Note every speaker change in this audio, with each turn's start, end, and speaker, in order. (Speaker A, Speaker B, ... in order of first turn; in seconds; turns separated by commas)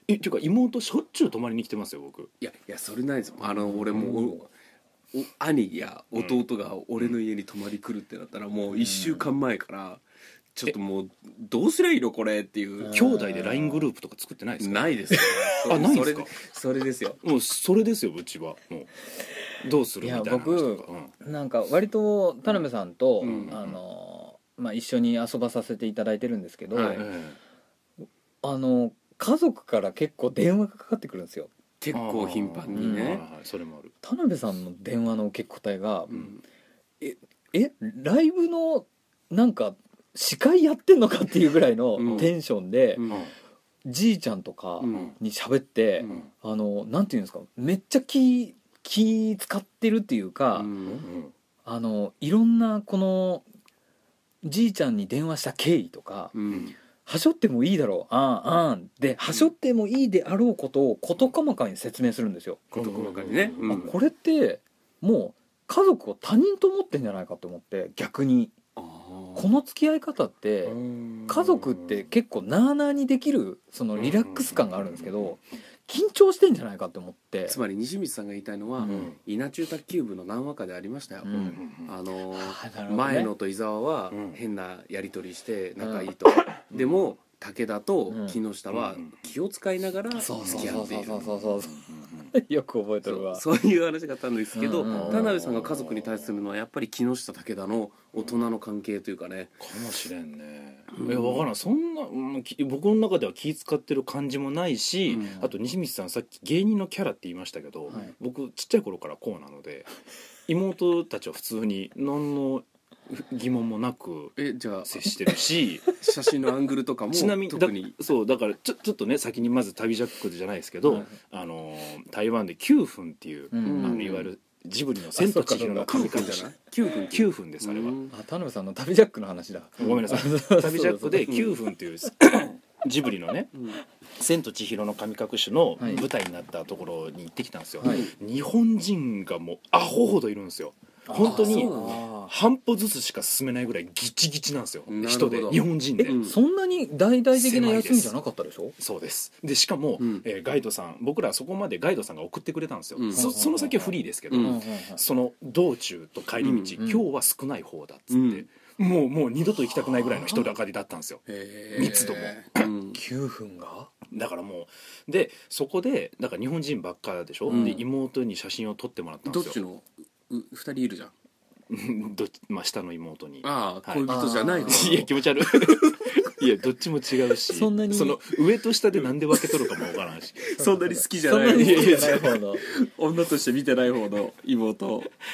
Speaker A: 0.1-2.3, Speaker B: 2.4-4.5, Speaker C: 3.9-4.4, Speaker B: 5.1-10.0, Speaker C: 8.7-9.3, Speaker B: 10.6-13.0, Speaker C: 12.8-13.8, Speaker A: 12.9-16.3, Speaker B: 14.6-17.2, Speaker A: 17.2-18.9, Speaker A: 19.6-21.1, Speaker C: 20.0-27.1, Speaker B: 23.2-23.6, Speaker A: 23.2-23.8, Speaker B: 26.7-27.1, Speaker A: 26.9-27.4, Speaker C: 28.4-31.5, Speaker B: 31.8-33.2, Speaker A: 31.9-33.9, Speaker C: 32.7-33.2, Speaker C: 34.0-36.3, Speaker B: 36.1-36.4, Speaker C: 37.0-43.0, Speaker B: 42.0-42.3, Speaker B: 43.0-43.3, Speaker A: 43.1-43.3, Speaker C: 43.9-50.7, Speaker B: 44.8-45.1, Speaker B: 50.5-51.1, Speaker A: 50.8-51.3, Speaker C: 51.6-53.5, Speaker C: 54.4-56.3, Speaker B: 56.3-56.8, Speaker C: 57.0-62.7, Speaker A: 62.7-63.9, Speaker B: 62.7-63.9, Speaker C: 63.6-68.5, Speaker B: 68.8-69.5, Speaker C: 69.3-77.6, Speaker A: 70.7-72.1, Speaker A: 74.0-75.4, Speaker B: 77.5-91.3, Speaker A: 78.8-79.2, Speaker C: 78.8-79.1, Speaker C: 81.2-81.6, Speaker A: 81.5-81.9, Speaker C: 82.3-83.3, Speaker A: 84.1-84.4, Speaker C: 85.8-86.1, Speaker A: 86.7-87.2, Speaker C: 88.1-88.4, Speaker A: 88.7-89.2, Speaker C: 90.2-91.8, Speaker A: 90.4-92.3, Speaker C: 92.3-93.4, Speaker B: 93.0-99.6, Speaker C: 94.5-95.3, Speaker A: 94.9-96.3, Speaker A: 98.2-98.4, Speaker A: 99.6-109.9, Speaker B: 100.9-101.4, Speaker B: 105.1-105.4, Speaker A: 110.5-115.9, Speaker B: 114.4-115.2, Speaker B: 115.9-118.0, Speaker A: 117.1-126.5, Speaker C: 120.9-121.2, Speaker C: 123.5-124.1, Speaker B: 123.6-124.3, Speaker C: 125.2-126.2, Speaker B: 125.8-128.1, Speaker A: 127.1-128.0, Speaker C: 128.1-131.4, Speaker A: 129.8-133.6, Speaker B: 131.2-131.5, Speaker B: 133.5-133.8, Speaker A: 134.2-146.2, Speaker C: 135.8-136.1, Speaker C: 137.8-138.1, Speaker B: 137.8-138.1, Speaker C: 141.1-142.3, Speaker B: 141.2-142.0, Speaker B: 144.9-146.4, Speaker C: 146.0-148.8, Speaker A: 147.3-148.2, Speaker A: 148.8-161.2, Speaker B: 150.0-150.3, Speaker B: 153.0-153.3, Speaker C: 153.1-155.0, Speaker B: 154.3-154.6, Speaker B: 156.4-156.8, Speaker C: 156.8-157.1, Speaker B: 158.1-158.4, Speaker B: 161.3-163.0, Speaker A: 161.8-162.7, Speaker C: 162.9-163.9, Speaker A: 164.1-169.6, Speaker C: 167.5-167.8, Speaker B: 167.5-167.8, Speaker B: 169.3-171.1, Speaker A: 171.7-180.4, Speaker B: 173.4-176.0, Speaker C: 174.1-175.0, Speaker C: 177.5-178.2, Speaker B: 180.5-185.1, Speaker C: 180.6-182.6, Speaker A: 181.6-182.2